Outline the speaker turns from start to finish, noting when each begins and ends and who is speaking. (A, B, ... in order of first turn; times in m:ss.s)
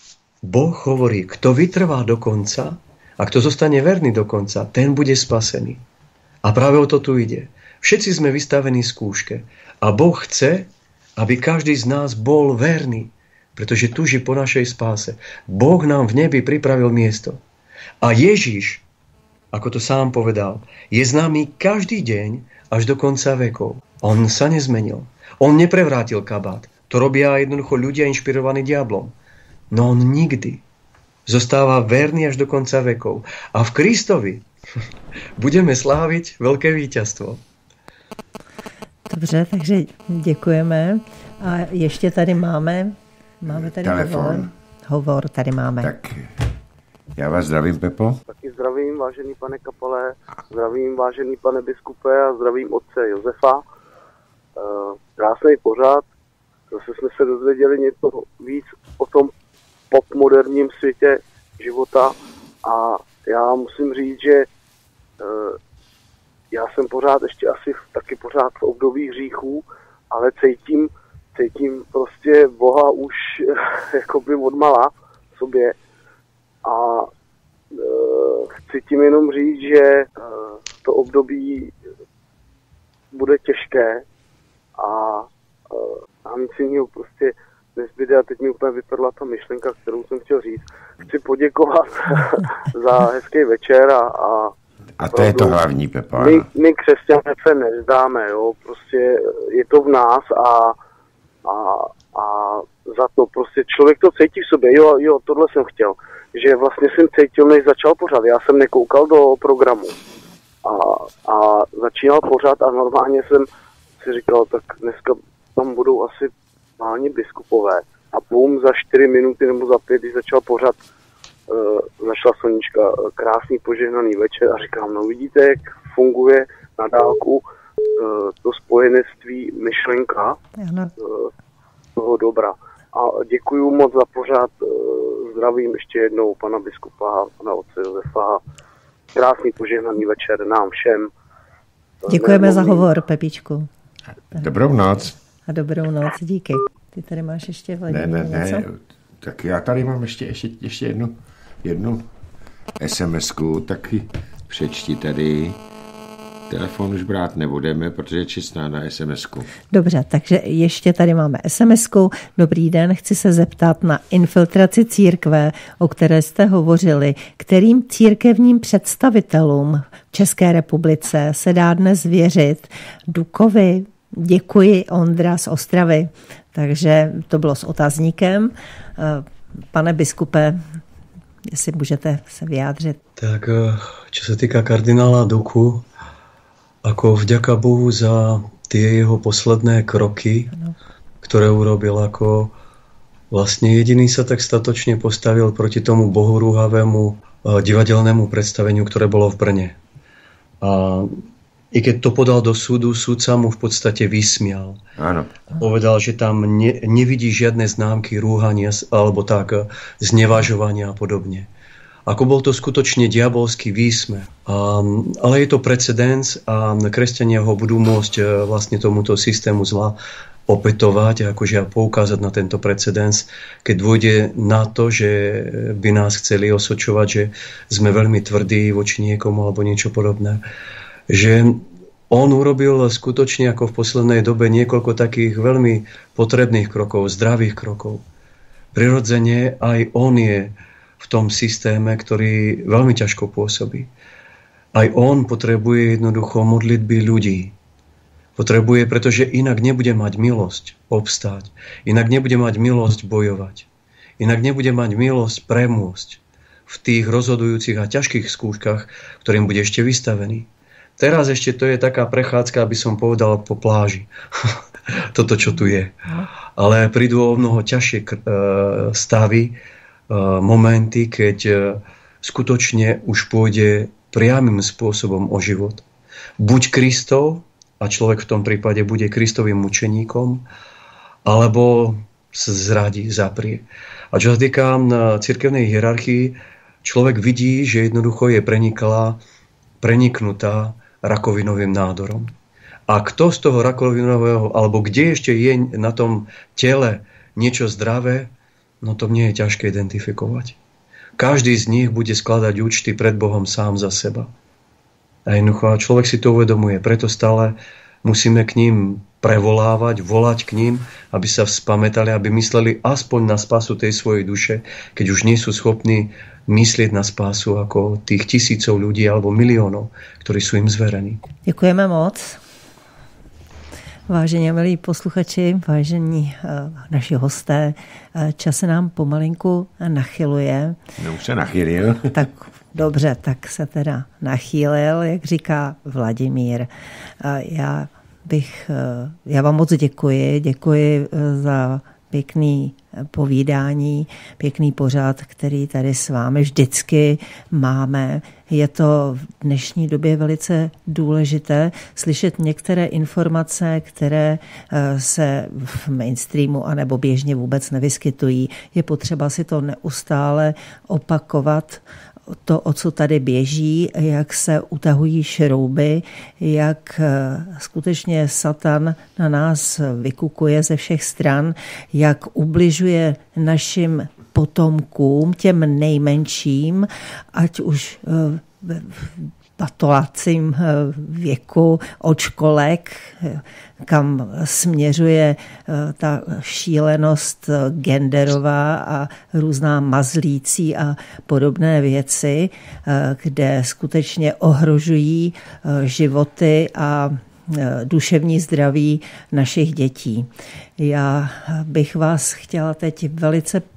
0:00.4-0:05.8 A
0:06.4-0:17.4 A
0:18.0-0:18.8 A
0:19.5-0:29.1 A
0:29.7-0:30.6 A
0:31.2-0:34.4 A
0:35.4-0:37.4 A
0:39.1-0:45.9 B
0:43.5-0:44.5 C
0:45.8-0:46.4 C
0:47.1-0:48.2 C
0:48.3-0:53.6 D
0:54.6-0:56.0 D
0:56.7-0:59.3 D
0:59.9-1:04.5 D
1:05.2-1:05.6 D
1:06.5-1:15.8 D
1:16.6-1:17.1 D
1:17.7-1:21.7 D
1:23.1-1:24.0 D
1:24.8-1:34.5 D
1:35.0-1:36.5 C
1:35.1-1:35.6 D
1:36.2-1:40.8 D
1:41.4-1:50.0 D
1:50.6-1:53.5 D
1:54.0-2:00.8 D
2:01.5-2:07.4 D
2:08.0-2:10.4 D
2:10.6-2:10.9 B
2:11.0-2:11.3 D
2:12.0-2:18.4 D
2:19.1-2:21.1 D
2:22.0-2:22.9 D
2:22.1-2:23.7 B
2:24.3-2:25.2 C
2:25.5-2:28.6 B
2:27.9-2:32.0 C
2:32.8-2:35.6 C
2:36.5-2:39.5 C
2:39.7-3:00.6 B
3:01.5-3:03.0 B
3:03.2-3:05.8 A
3:06.8-3:10.5 A
3:11.2-3:12.5 A
3:13.3-3:19.8 A
3:20.6-3:24.8 A
3:25.0-3:25.5 C
3:25.6-3:31.5 A
3:32.1-3:40.0 A
3:40.5-3:50.4 A
3:51.1-3:58.0 A
3:58.7-4:03.9 A
4:04.7-4:07.5 A
4:08.4-4:13.7 A
4:14.2-4:25.9 A
4:26.6-4:35.8 A
4:36.4-4:40.4 A
4:41.2-4:49.2 A
4:49.8-4:52.3 A
4:52.9-4:58.3 A
4:58.8-5:00.6 A
5:01.2-5:04.3 A
5:05.2-5:21.2 A
5:21.4-5:22.4 B
5:24.1-5:30.8 B
5:31.0-5:32.2 C
5:32.1-5:36.7 B
5:37.2-6:43.6 B